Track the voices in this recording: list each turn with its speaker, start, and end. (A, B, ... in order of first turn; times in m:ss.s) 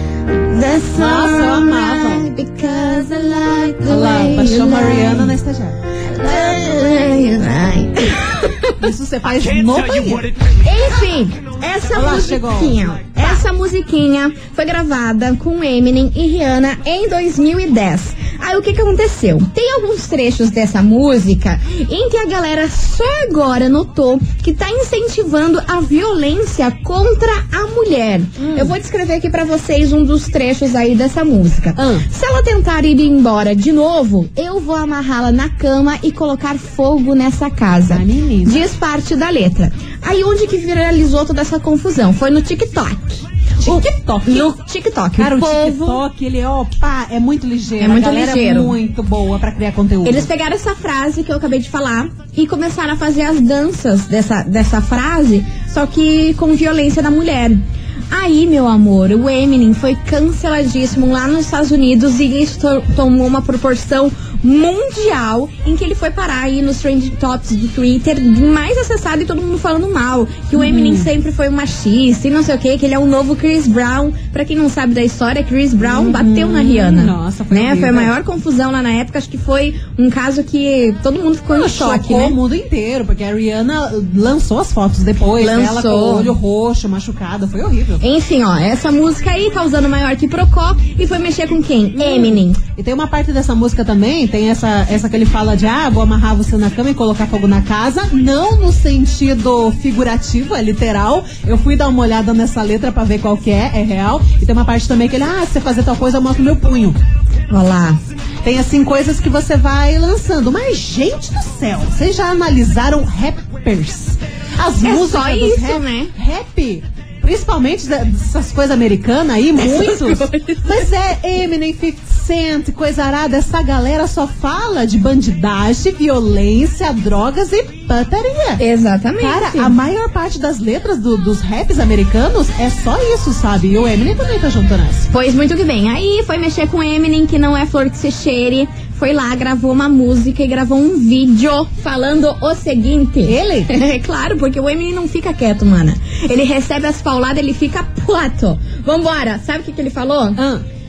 0:00.5-0:05.3 A
0:00.9-0:02.3 B
0:03.8-0:05.8 B
0:06.0-0:08.8 A
0:08.8-0:10.3 B
0:10.6-0:46.0 A
0:11.9-0:13.4 B
0:28.4-0:28.8 B
0:31.8-0:32.1 B
0:37.9-0:38.7 B
0:43.6-0:44.5 B
0:45.2-0:50.3 B
0:47.8-0:48.8 A
0:50.0-0:57.6 A
0:58.1-1:22.4 A
1:10.5-1:11.1 B
1:15.8-1:18.1 B
1:21.5-1:28.0 B
1:25.4-1:26.4 A
1:28.0-1:32.6 A
1:32.0-1:47.0 B
1:47.5-1:48.0 A
1:48.4-2:08.6 B
1:54.8-1:56.1 A
1:59.6-2:00.8 A
2:08.6-2:09.8 A
2:09.2-2:15.1 B
2:15.1-2:30.4 A
2:23.2-2:23.7 B
2:30.4-2:30.6 B